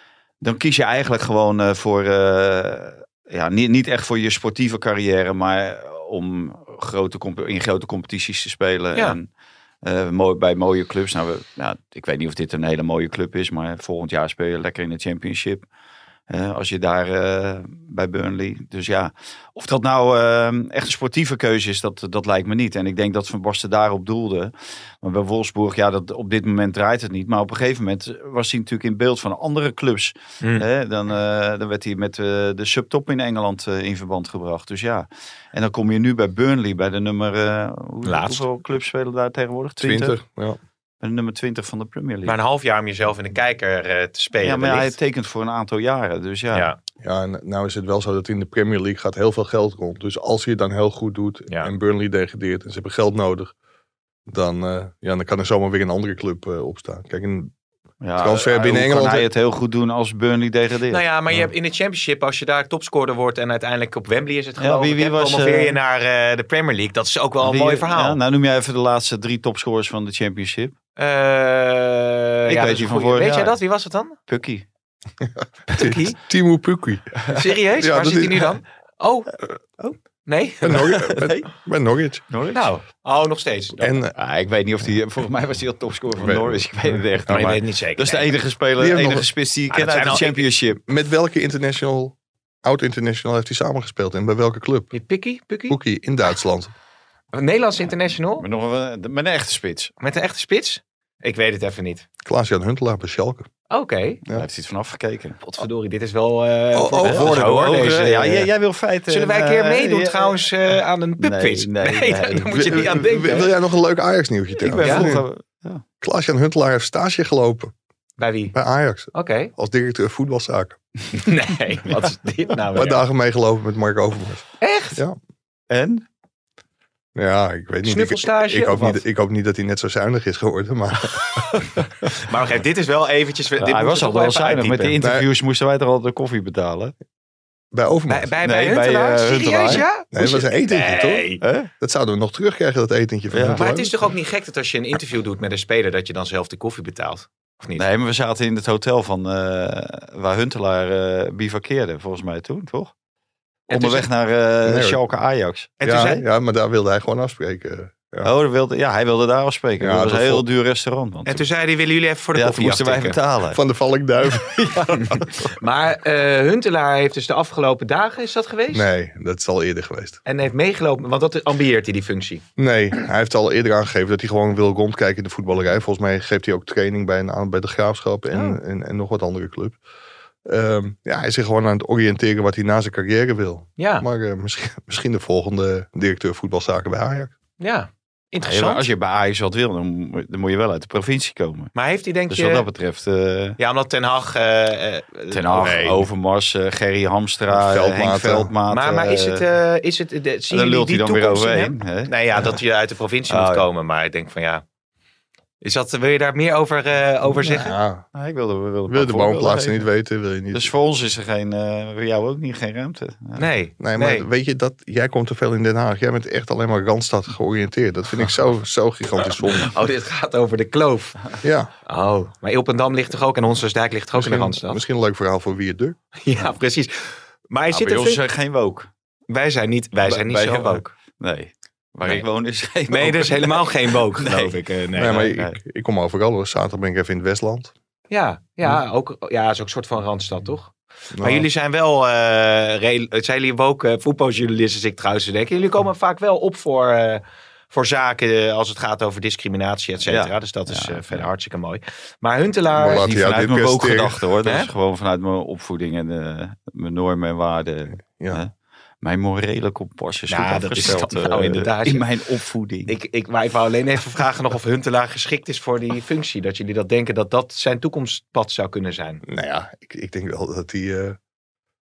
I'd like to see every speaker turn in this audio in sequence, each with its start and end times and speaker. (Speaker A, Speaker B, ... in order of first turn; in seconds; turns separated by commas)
Speaker A: 0.4-9.3, Speaker A: 9.8-15.7, Speaker A: 16.3-40.2, Speaker B: 30.4-30.6, Speaker B: 38.0-38.4, Speaker C: 39.8-40.6, Speaker A: 41.0-42.4, Speaker B: 42.2-44.9, Speaker A: 44.4-46.7, Speaker C: 47.0-53.5, Speaker C: 54.3-57.5, Speaker A: 58.0-61.0, Speaker C: 58.2-59.3, Speaker B: 60.9-68.2, Speaker A: 64.6-65.8, Speaker A: 67.4-70.8, Speaker B: 71.0-74.2, Speaker A: 72.5-73.6, Speaker A: 74.3-74.6, Speaker B: 75.7-76.2, Speaker C: 75.7-78.5, Speaker B: 77.3-79.3, Speaker B: 80.2-81.0, Speaker C: 80.6-82.2, Speaker A: 81.1-81.5, Speaker A: 82.3-82.7, Speaker B: 82.5-84.0, Speaker C: 83.8-84.1, Speaker A: 84.1-90.8, Speaker C: 86.2-86.7, Speaker B: 87.3-88.3, Speaker C: 88.8-89.3, Speaker B: 89.7-90.5, Speaker C: 90.8-94.9, Speaker B: 94.9-95.8, Speaker C: 95.7-96.7, Speaker B: 97.3-98.4, Speaker A: 98.4-99.9, Speaker B: 100.0-102.0, Speaker C: 102.2-103.5, Speaker B: 103.7-104.2, Speaker A: 104.3-105.4, Speaker B: 105.4-108.5, Speaker C: 106.7-107.7, Speaker A: 107.0-110.4, Speaker B: 109.1-113.5, Speaker A: 111.2-113.0, Speaker C: 112.5-115.2, Speaker A: 114.6-115.8, Speaker B: 114.7-115.1, Speaker C: 116.0-117.7, Speaker B: 118.2-118.5, Speaker C: 118.5-120.8, Speaker B: 119.1-119.5, Speaker B: 121.1-123.0, Speaker C: 122.7-125.2, Speaker B: 124.6-125.0, Speaker A: 125.7-126.0, Speaker C: 127.1-131.6, Speaker B: 127.8-129.0, Speaker B: 132.2-135.0, Speaker A: 133.6-136.9, Speaker C: 135.0-135.2, Speaker C: 137.7-138.3, Speaker B: 138.1-141.4, Speaker A: 138.4-139.8, Speaker C: 139.7-141.3, Speaker A: 141.4-141.7, Speaker C: 141.8-143.9, Speaker A: 143.3-143.7, Speaker B: 143.5-147.8, Speaker A: 147.8-152.9, Speaker B: 153.7-154.1, Speaker A: 153.7-155.8, Speaker C: 154.6-155.0, Speaker B: 155.8-156.2, Speaker C: 155.8-158.3, Speaker A: 158.2-161.4, Speaker C: 159.8-160.4, Speaker B: 161.2-163.2, Speaker A: 162.3-163.6, Speaker C: 163.5-164.8, Speaker A: 164.3-165.5, Speaker B: 165.6-168.9, Speaker C: 168.7-170.2, Speaker B: 170.2-172.4, Speaker C: 172.6-179.8, Speaker B: 178.3-178.6, Speaker C: 180.4-187.3, Speaker B: 183.8-184.1, Speaker B: 187.6-188.8, Speaker A: 188.4-191.7, Speaker B: 191.7-192.7, Speaker A: 192.3-193.6, Speaker B: 193.6-196.1, Speaker A: 195.3-199.4, Speaker C: 197.5-198.5, Speaker B: 198.7-204.6, Speaker A: 200.5-202.5, Speaker A: 203.3-203.7, Speaker B: 205.6-207.7, Speaker C: 207.3-208.1, Speaker A: 208.1-209.9, Speaker C: 208.9-210.7, Speaker A: 210.5-213.5, Speaker B: 213.4-214.3, Speaker C: 213.8-219.7, Speaker B: 219.4-221.3, Speaker C: 221.4-221.7, Speaker B: 221.8-224.8, Speaker C: 224.1-226.0, Speaker B: 226.2-228.2, Speaker A: 227.7-228.9, Speaker B: 229.3-230.9, Speaker A: 230.1-234.6, Speaker B: 232.9-235.3, Speaker C: 234.9-237.7, Speaker A: 235.1-235.6, Speaker B: 238.1-253.1, Speaker C: 241.1-241.5, Speaker A: 250.1-251.3, Speaker C: 252.7-254.2, Speaker A: 252.9-258.5, Speaker C: 258.0-258.4, Speaker A: 259.0-262.9, Speaker B: 260.3-262.1, Speaker B: 262.9-269.2, Speaker C: 269.2-271.2